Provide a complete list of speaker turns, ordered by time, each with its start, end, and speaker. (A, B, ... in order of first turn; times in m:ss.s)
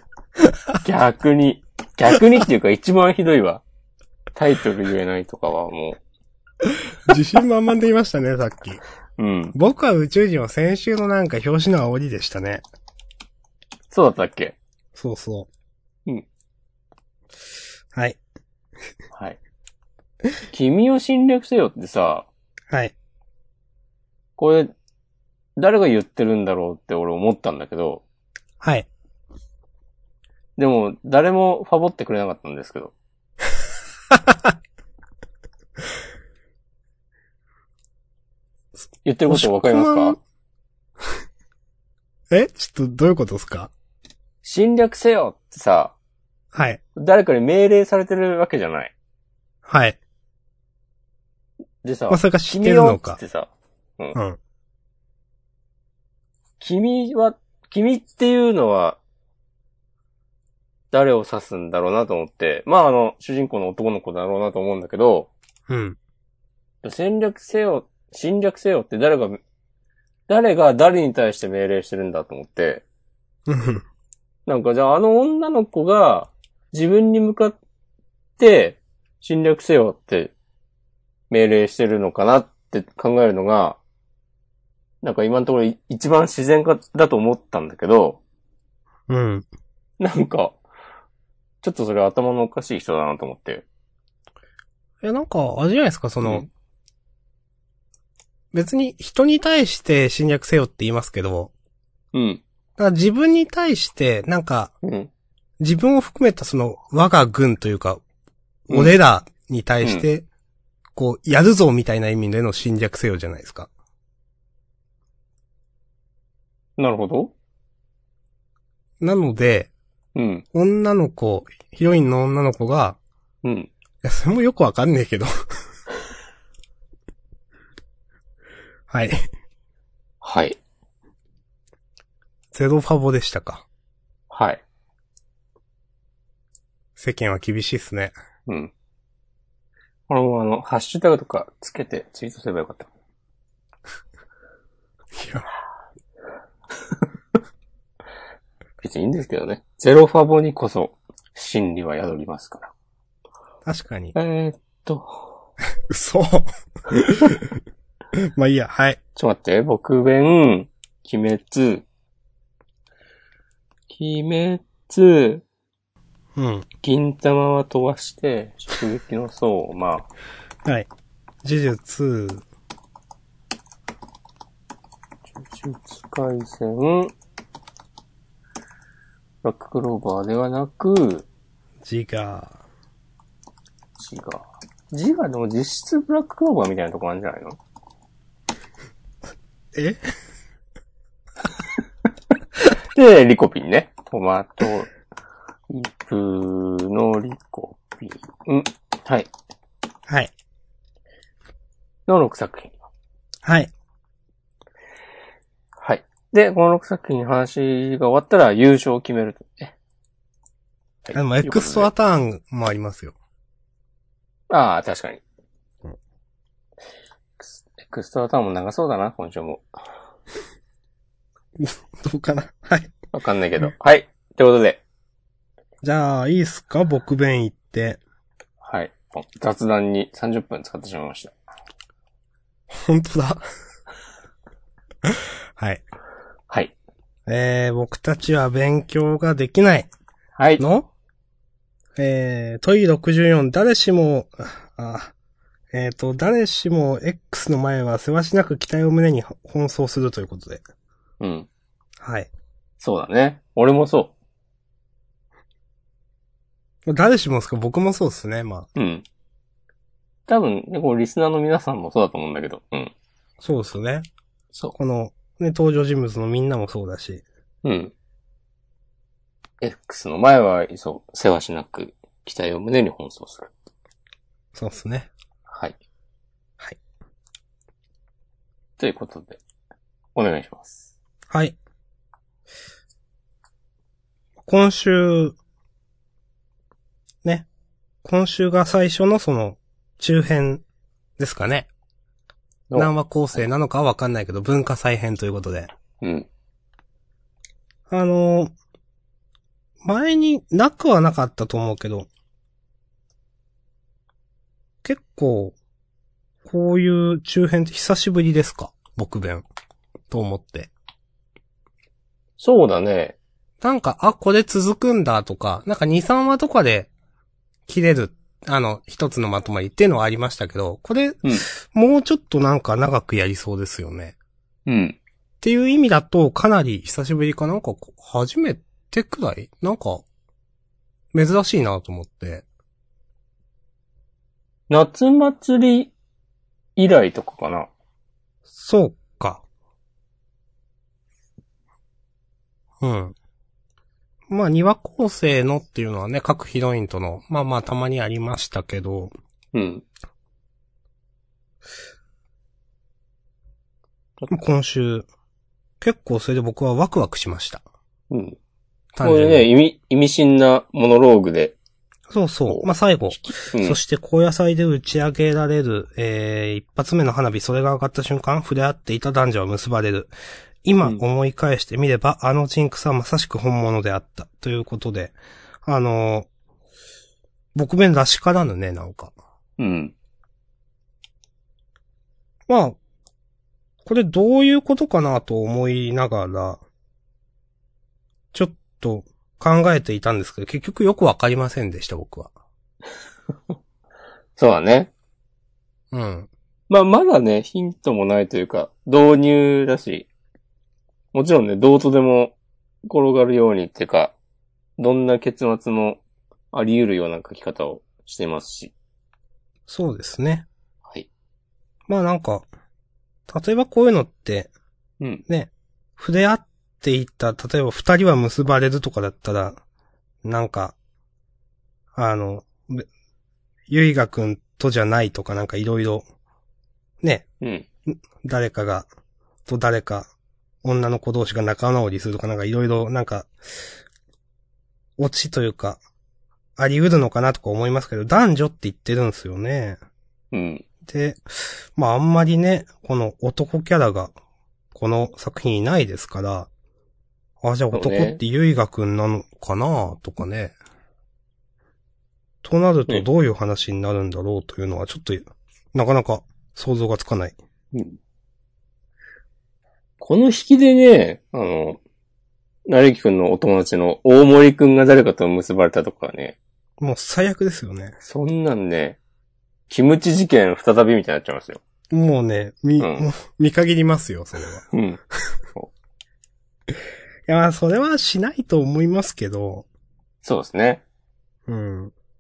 0:00.8-0:03.6 A
0:04.3-0:06.0 A
0:07.1-0:08.8 B
0:09.2-0:09.6 A
0:09.6-0:12.6 B
0:13.9-0:14.6 A
0:15.0-0:15.5 B
0:20.5-0:22.3 A
0:24.4-0:24.7 A
0:25.6-0:28.0 A
0:28.6-0:28.9 B
0:30.6-0:32.9 A
0:34.1-0:34.5 B
0:39.0-0:40.2 A
0:39.3-0:40.2 B
0:42.3-0:43.7 B
0:44.4-0:46.0 A
0:46.5-0:46.8 B
0:47.0-0:48.9 A
0:49.7-0:50.0 B
0:51.8-0:54.2 A
0:52.1-0:53.2 B
0:56.6-0:59.0 A
1:00.9-1:05.3 A
1:05.7-1:06.0 B
1:06.8-1:09.4 A
1:10.3-1:12.8 A
1:13.5-1:13.8 B
1:14.5-1:17.6 A
1:18.4-1:20.3 A
1:21.3-1:23.8 A
1:25.0-1:28.2 A
1:29.1-1:29.5 B
1:30.0-1:30.6 A
1:31.6-1:33.6 A
1:35.0-1:36.5 B
1:36.2-1:36.5 A
1:38.5-1:41.5 B
1:42.1-1:42.4 A
1:42.8-1:44.7 B
1:44.8-1:45.1 A
1:45.6-1:48.0 B
1:48.7-1:50.3 B
1:51.0-1:53.7 B
1:56.8-1:57.3 A
1:59.0-1:59.7 B
2:00.2-2:00.4 A
2:00.5-2:03.0 B
2:03.4-2:03.7 A
2:04.0-2:05.3 B
2:08.9-2:09.2 B
2:10.2-2:10.6 A
2:12.5-2:13.6 B
2:14.3-2:14.6 A
2:17.0-2:18.2 B
2:18.5-2:18.7 A
2:20.1-2:22.9 A
2:25.1-2:25.5 B
2:28.8-2:32.7 A
2:33.7-2:34.2 B
2:34.2-2:35.3 A
2:35.9-2:37.6 B
2:38.1-2:39.0 B
2:39.2-2:41.8 A
2:43.9-2:45.4 A
2:46.4-2:46.7 B
2:46.8-2:50.1 A
2:51.4-2:52.4 B
2:55.5-2:57.1 A
2:59.4-3:01.3 A
3:01.8-3:02.6 B
3:04.0-3:07.6 A
3:09.7-3:10.1 B
3:12.6-3:14.9 A
3:15.7-3:19.3 A
3:22.1-3:22.8 A
3:23.4-3:23.7 B
3:25.8-3:29.7 A
3:31.1-3:31.9 A
3:31.1-3:33.2 B
3:34.5-3:35.2 A
3:37.8-3:39.6 A
3:41.6-3:42.9 B
3:43.1-3:44.8 A
3:45.8-3:48.0 B
3:48.6-3:51.3 A
3:52.7-3:53.4 B
3:55.1-3:55.8 B
3:57.3-3:59.9 B
4:00.4-4:00.6 A
4:00.6-4:00.9 B
4:02.0-4:05.1 B
4:05.7-4:10.6 B
4:11.2-4:11.5 A
4:12.0-4:12.3 B
4:12.8-4:14.1 A
4:16.9-4:18.7 B
4:18.8-4:19.0 A
4:20.3-4:22.9 A
4:23.4-4:24.1 B
4:24.8-4:27.2 B
4:27.6-4:27.9 A
4:29.6-4:33.5 A
4:34.6-4:35.1 B
4:35.5-4:35.8 A
4:38.8-4:39.4 A
4:40.2-4:40.8 A
4:41.3-4:41.6 B
4:44.4-4:45.4 B
4:48.0-4:50.6 B
4:51.2-4:51.7 B
4:52.7-4:53.4 A
4:52.8-4:55.7 B
4:56.0-4:56.3 A
4:57.9-4:58.5 B
4:59.8-5:02.1 B
5:04.8-5:05.6 B
5:06.4-5:09.4 B
5:10.1-5:10.7 B
5:12.4-5:13.2 A
5:13.6-5:16.9 B
5:17.7-5:24.2 B
5:24.7-5:25.0 A
5:25.4-5:30.0 B
5:31.1-5:32.4 B
5:34.7-5:35.9 A
5:36.8-5:37.7 A
5:38.5-5:39.4 B
5:42.8-5:43.2 B
5:44.3-5:49.1 B
5:49.5-5:49.8 A
5:54.3-5:55.1 B
5:55.8-5:57.6 B
5:58.1-5:58.4 A
5:59.0-5:59.5 B
5:59.0-6:01.6 A
6:02.1-6:10.1 B
6:02.5-6:03.8 A
6:10.6-6:16.3 B
6:17.6-6:19.1 B
6:19.6-6:19.9 A
6:22.5-6:22.8 B
6:23.8-6:26.6 B
6:28.3-6:32.3 B
6:34.4-6:34.9 A
6:35.9-6:36.3 B
6:36.7-6:40.1 A
6:41.1-6:42.4 A
6:42.9-6:44.2 A
6:44.8-6:46.0 A
6:46.5-6:48.7 A
6:49.7-6:50.5 B
6:51.9-6:52.5 B
6:53.3-6:54.5 B
6:55.3-6:59.6 B
7:00.2-7:00.8 B
7:02.0-7:02.9 B
7:03.7-7:06.1 B
7:07.4-7:07.7 A
7:07.9-7:08.9 B
7:09.5-7:10.1 B
7:10.6-7:13.3 B
7:15.0-7:15.8 B
7:16.6-7:19.8 B
7:20.3-7:20.6 A
7:20.9-7:24.1 B
7:24.7-7:26.5 B
7:27.4-7:30.6 B
7:27.7-7:28.2 A
7:32.4-7:37.4 B
7:37.7-7:38.0 A
7:40.0-7:41.8 A
7:42.7-7:46.4 A
7:46.8-7:48.0 B
7:48.0-7:49.0 A
7:49.7-7:51.6 A
7:51.9-7:54.6 B
7:52.8-7:53.1 A
7:54.7-7:55.0 A
7:57.3-7:59.7 B
8:00.2-8:00.8 A
8:01.5-8:01.9 B